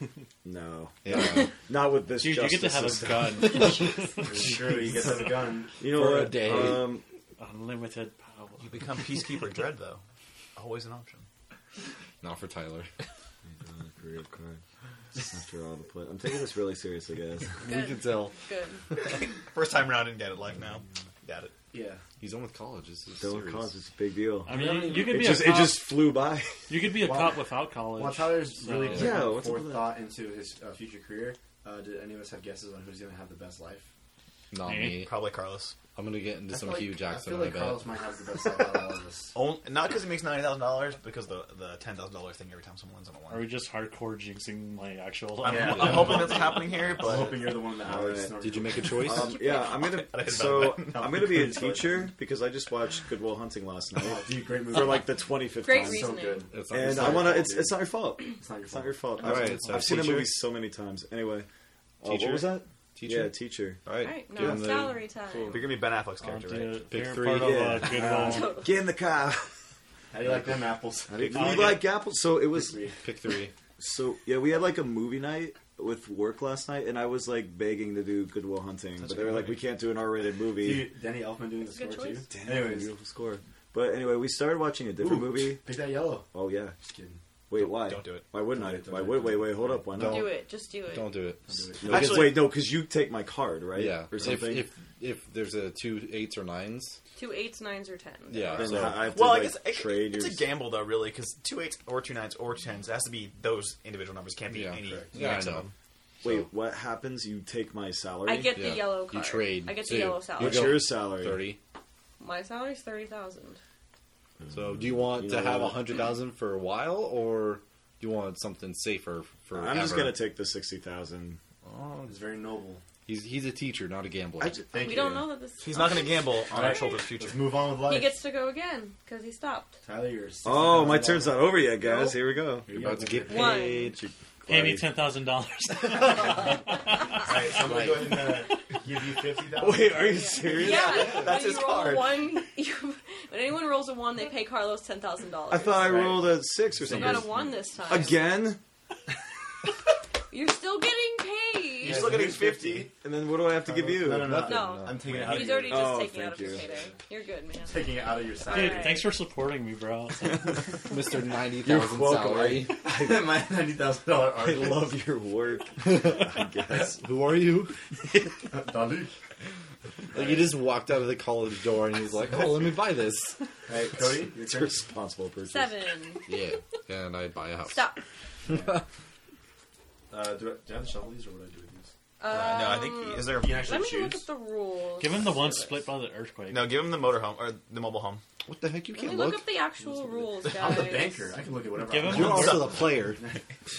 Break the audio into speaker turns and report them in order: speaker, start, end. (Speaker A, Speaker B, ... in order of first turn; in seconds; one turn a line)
Speaker A: 0.4-3.7
Speaker B: 1.0-1.5
Speaker C: 2.1-5.3
Speaker D: 4.2-5.8
Speaker A: 5.8-7.0
Speaker B: 5.8-6.9
Speaker C: 7.4-9.4
Speaker E: 8.6-10.0
Speaker E: 10.6-11.3
Speaker B: 12.2-12.9
Speaker A: 13.5-14.6
Speaker A: 15.2-17.6
Speaker B: 17.6-18.4
Speaker F: 17.6-18.8
Speaker E: 19.0-21.5
Speaker D: 21.7-22.0
Speaker B: 22.2-23.7
Speaker A: 23.2-26.7
Speaker C: 24.4-26.1
Speaker D: 24.5-25.2
Speaker C: 26.7-29.4
Speaker D: 26.9-33.9
Speaker A: 28.9-30.0
Speaker B: 34.5-35.2
Speaker C: 34.6-35.1
Speaker E: 34.9-35.8
Speaker B: 36.0-37.9
Speaker D: 36.5-39.4
Speaker E: 39.4-43.5
Speaker C: 43.3-46.7
Speaker E: 45.4-47.5
Speaker D: 45.4-49.1
Speaker A: 47.8-61.5
Speaker B: 48.4-49.4
Speaker F: 49.1-49.9
Speaker E: 49.6-51.2
Speaker D: 50.7-52.1
Speaker D: 54.0-55.1
Speaker F: 55.6-56.5
Speaker D: 55.6-59.1
Speaker B: 56.5-57.6
Speaker B: 59.2-60.4
Speaker A: 62.0-65.8
Speaker B: 62.0-65.0
Speaker F: 64.0-65.6
Speaker E: 65.5-66.8
Speaker C: 66.3-68.6
Speaker B: 66.9-68.0
Speaker A: 67.2-69.5
Speaker D: 67.9-68.5
Speaker F: 68.1-68.8
Speaker D: 70.1-71.9
Speaker A: 71.1-72.8
Speaker E: 71.4-71.8
Speaker D: 72.5-73.0
Speaker B: 73.0-73.5
Speaker A: 73.8-80.9
Speaker E: 79.0-79.6
Speaker D: 80.6-82.9
Speaker F: 81.7-82.2
Speaker A: 82.3-85.7
Speaker D: 85.0-87.2
Speaker A: 86.3-86.8
Speaker A: 87.5-90.3
Speaker E: 87.6-88.3
Speaker D: 88.5-89.9
Speaker B: 89.9-92.3
Speaker F: 90.0-91.2
Speaker D: 91.5-92.4
Speaker A: 91.8-94.7
Speaker E: 91.9-92.4
Speaker B: 93.7-97.0
Speaker F: 97.2-98.8
Speaker B: 98.3-99.1
Speaker A: 98.6-100.5
Speaker E: 99.0-105.7
Speaker B: 104.5-105.7
Speaker D: 104.8-105.2
Speaker A: 105.2-105.5
Speaker A: 106.2-108.6
Speaker B: 106.2-106.5
Speaker F: 108.2-110.8
Speaker B: 108.5-111.6
Speaker A: 110.4-111.5
Speaker F: 112.2-113.6
Speaker A: 114.4-115.9
Speaker B: 114.5-120.2
Speaker A: 119.5-121.4
Speaker B: 121.7-122.2
Speaker D: 122.1-122.8
Speaker B: 123.1-124.6
Speaker A: 124.4-125.1
Speaker D: 124.7-125.3
Speaker F: 124.7-126.3
Speaker E: 125.6-127.5
Speaker D: 126.5-128.2
Speaker F: 127.8-129.8
Speaker D: 129.8-131.5
Speaker A: 130.4-132.7
Speaker F: 131.8-132.2
Speaker D: 132.7-133.7
Speaker B: 132.7-134.0
Speaker F: 133.3-134.0
Speaker A: 133.7-135.0
Speaker C: 134.5-138.4
Speaker D: 137.2-140.3
Speaker B: 137.7-138.1
Speaker A: 139.6-141.3
Speaker F: 140.0-146.1
Speaker E: 140.6-142.3
Speaker A: 145.5-148.6
Speaker D: 145.7-147.6
Speaker F: 146.8-148.4
Speaker F: 150.3-152.1
Speaker D: 151.8-152.9
Speaker A: 151.9-154.5
Speaker E: 151.9-152.9
Speaker D: 153.5-157.0
Speaker B: 154.1-155.0
Speaker F: 154.3-159.1
Speaker A: 155.3-156.7
Speaker D: 157.6-159.0
Speaker C: 158.5-160.7
Speaker B: 160.9-162.8
Speaker A: 161.6-162.8
Speaker D: 162.5-165.0
Speaker A: 164.4-167.0
Speaker B: 165.8-167.7
Speaker D: 168.5-169.1
Speaker D: 170.1-170.5
Speaker B: 170.1-173.4
Speaker D: 173.7-174.9
Speaker A: 174.5-175.8
Speaker F: 175.4-176.3
Speaker B: 176.3-177.9
Speaker F: 177.7-178.0
Speaker D: 178.4-178.8
Speaker D: 180.1-184.3
Speaker F: 182.2-185.6
Speaker E: 182.4-183.8
Speaker C: 185.0-187.0
Speaker D: 185.3-185.7
Speaker E: 186.5-188.2
Speaker B: 188.5-189.6
Speaker F: 188.9-191.2
Speaker D: 189.8-193.4
Speaker C: 191.8-192.9
Speaker B: 192.1-193.2
Speaker E: 192.3-192.8